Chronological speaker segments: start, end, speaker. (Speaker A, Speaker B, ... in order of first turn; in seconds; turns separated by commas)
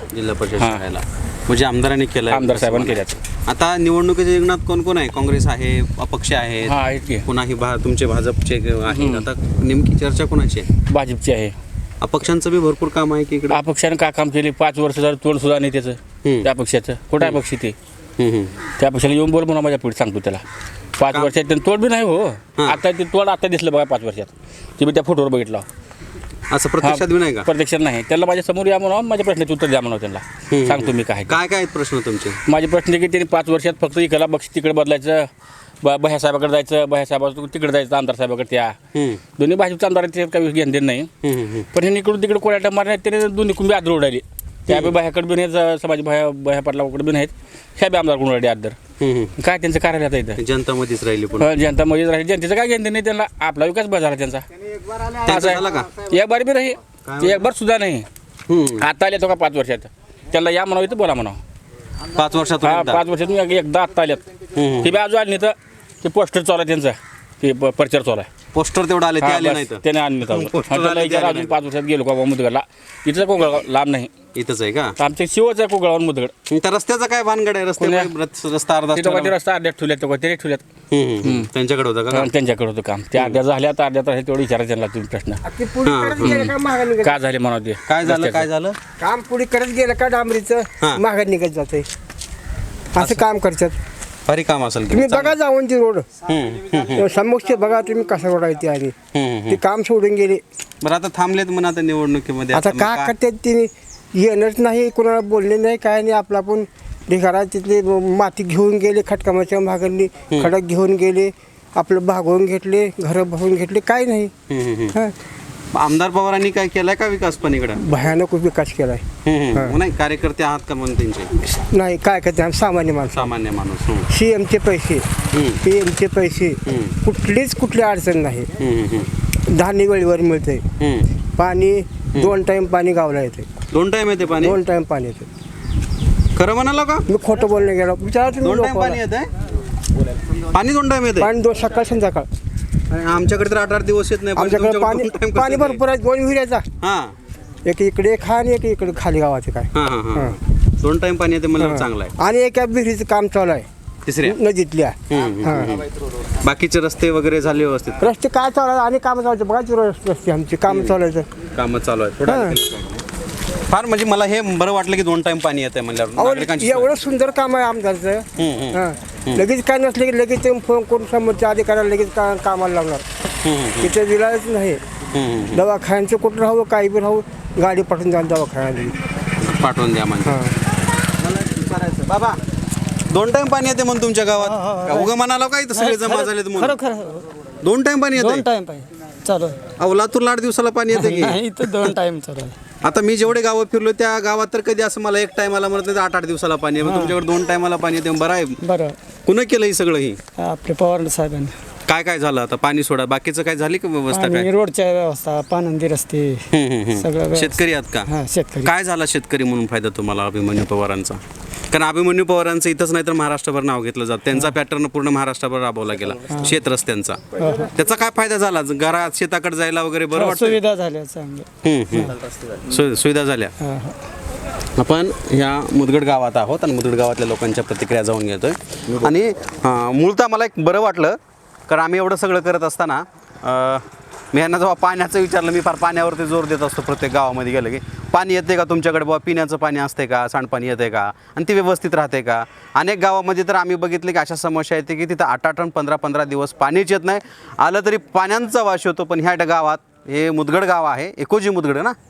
Speaker A: 0.1-10.7, Speaker B: 0.6-0.8, Speaker B: 2.3-3.2, Speaker B: 6.6-7.2, Speaker B: 8.9-9.2, Speaker B: 10.8-11.5, Speaker A: 12.0-13.6, Speaker B: 13.5-17.7, Speaker A: 18.2-18.6, Speaker B: 18.8-20.4, Speaker B: 21.0-25.7, Speaker A: 26.5-27.5, Speaker B: 26.8-31.3, Speaker A: 30.5-32.4, Speaker B: 32.5-35.3, Speaker B: 35.8-38.8, Speaker A: 38.9-39.2, Speaker B: 39.4-41.1, Speaker A: 41.2-41.7, Speaker B: 41.7-48.8, Speaker A: 49.0-49.3, Speaker B: 49.4-50.4, Speaker A: 50.4-51.5, Speaker B: 51.4-54.4, Speaker B: 55.2-58.1, Speaker A: 55.3-55.9, Speaker A: 57.0-57.4, Speaker A: 58.5-58.9, Speaker B: 58.8-61.4, Speaker A: 62.1-63.0, Speaker B: 62.6-64.2, Speaker A: 64.5-65.0, Speaker B: 64.8-68.3, Speaker A: 68.5-71.5, Speaker B: 69.2-74.1, Speaker A: 74.3-74.9, Speaker B: 75.0-76.3, Speaker A: 76.5-79.3, Speaker B: 77.8-78.1, Speaker B: 78.9-80.7, Speaker A: 80.9-82.3, Speaker B: 81.2-81.5, Speaker B: 82.1-85.4, Speaker C: 85.4-87.2, Speaker A: 85.8-86.5, Speaker B: 86.2-86.5, Speaker B: 87.0-88.5, Speaker A: 87.9-88.8, Speaker C: 89.0-91.9, Speaker C: 93.0-93.8, Speaker A: 94.2-95.4, Speaker C: 94.9-96.1, Speaker A: 96.2-97.0, Speaker C: 97.0-98.9, Speaker A: 99.1-99.6, Speaker C: 99.5-100.4, Speaker A: 100.8-103.1, Speaker C: 102.5-114.3, Speaker A: 114.5-114.9, Speaker A: 115.7-117.8, Speaker C: 117.8-119.0, Speaker A: 119.2-121.3, Speaker C: 121.5-123.3, Speaker A: 123.1-124.1, Speaker C: 124.1-125.0, Speaker A: 125.3-125.6, Speaker C: 125.6-128.5, Speaker A: 126.7-126.9, Speaker A: 128.6-129.1, Speaker C: 129.5-130.6, Speaker A: 130.8-131.1, Speaker C: 131.4-133.5, Speaker A: 133.7-134.6, Speaker C: 134.4-135.3, Speaker A: 136.3-137.0, Speaker C: 137.1-139.0, Speaker A: 138.4-139.3, Speaker A: 140.5-141.3, Speaker C: 141.2-142.3, Speaker A: 142.9-145.8, Speaker C: 144.3-146.6, Speaker A: 146.8-147.1, Speaker C: 147.7-150.3, Speaker A: 149.7-152.1, Speaker C: 151.6-153.7, Speaker A: 154.1-154.4, Speaker C: 154.2-155.7, Speaker A: 155.1-155.9, Speaker A: 156.4-158.1, Speaker C: 158.0-161.3, Speaker A: 160.7-160.9, Speaker A: 161.5-163.0, Speaker C: 162.2-162.6, Speaker A: 163.7-166.9, Speaker C: 166.2-173.0, Speaker A: 168.3-169.4, Speaker A: 173.4-173.9, Speaker C: 173.8-174.8, Speaker A: 175.1-175.6, Speaker C: 175.5-178.9, Speaker A: 179.4-180.3, Speaker C: 180.2-180.5, Speaker A: 181.2-182.4, Speaker A: 183.1-186.8, Speaker D: 184.6-185.1, Speaker D: 185.7-187.2, Speaker A: 187.6-188.5, Speaker D: 188.1-189.6, Speaker A: 189.8-191.9, Speaker D: 190.9-192.6, Speaker A: 192.8-198.6, Speaker D: 196.8-197.2, Speaker D: 198.6-199.0, Speaker A: 199.2-200.2, Speaker D: 200.4-201.5, Speaker A: 201.9-204.5, Speaker D: 204.1-206.4, Speaker A: 206.5-208.1, Speaker D: 207.0-208.7, Speaker A: 208.6-211.2, Speaker A: 211.7-220.6, Speaker D: 216.3-216.6, Speaker D: 217.4-217.7, Speaker D: 220.1-222.2, Speaker A: 221.6-223.5, Speaker D: 223.6-223.9, Speaker A: 224.8-231.2, Speaker A: 231.7-251.9